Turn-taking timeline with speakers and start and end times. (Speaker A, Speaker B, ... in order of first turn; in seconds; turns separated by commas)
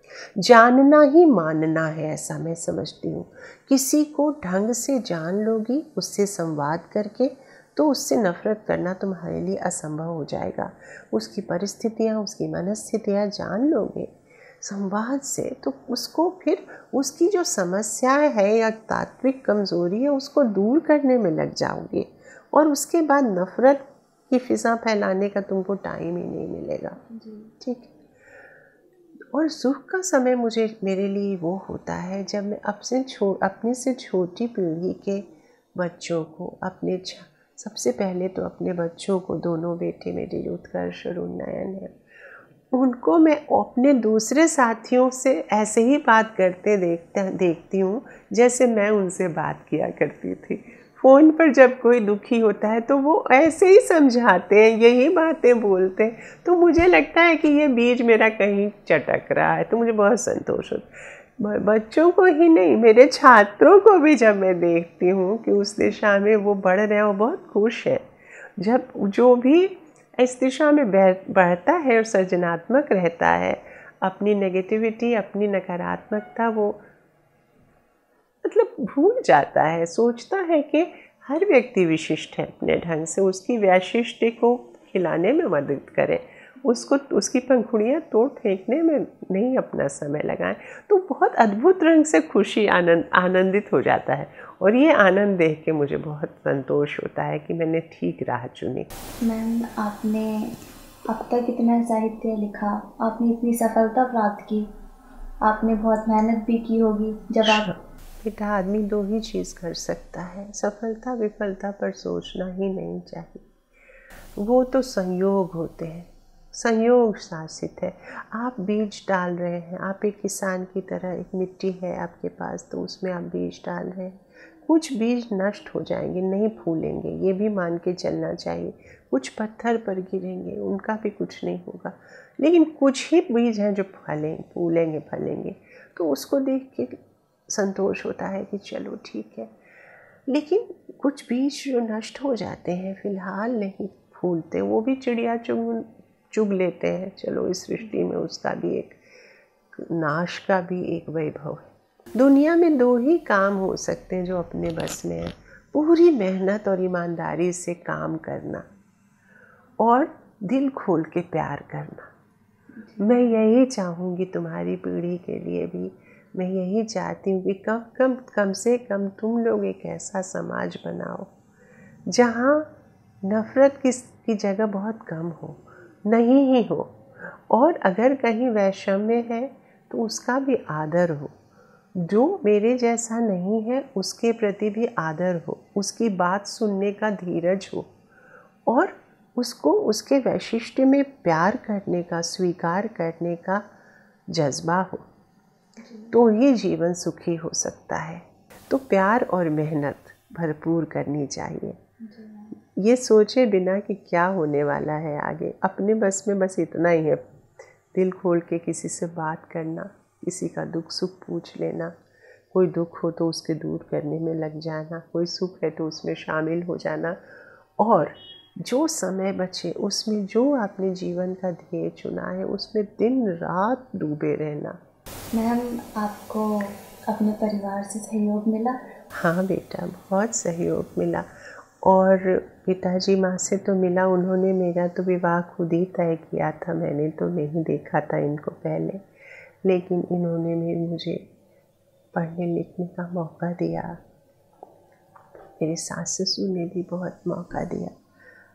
Speaker A: 0.4-27.0, Speaker B: 27.1-27.5, Speaker A: 27.6-27.9, Speaker A: 29.3-42.0, Speaker A: 42.7-60.9, Speaker A: 61.4-68.0, Speaker A: 68.6-76.8, Speaker A: 78.4-98.9, Speaker B: 99.2-100.6, Speaker B: 101.1-104.7, Speaker B: 105.5-107.7, Speaker A: 107.4-113.5, Speaker A: 114.4-139.5, Speaker A: 140.3-149.0, Speaker A: 149.8-158.7, Speaker A: 159.8-162.1, Speaker B: 162.9-163.3, Speaker A: 163.0-171.3, Speaker A: 172.1-172.7, Speaker A: 173.2-181.3, Speaker A: 182.0-187.9, Speaker A: 188.7-193.6, Speaker A: 194.3-195.1, Speaker B: 195.8-196.2, Speaker A: 196.1-201.8, Speaker B: 202.0-202.5, Speaker A: 202.7-207.2, Speaker A: 207.9-211.9, Speaker A: 212.5-217.2, Speaker A: 217.8-224.8, Speaker B: 225.3-228.8, Speaker A: 229.2-231.3, Speaker A: 231.8-239.0, Speaker A: 239.6-241.3, Speaker A: 242.1-244.0, Speaker A: 245.6-248.0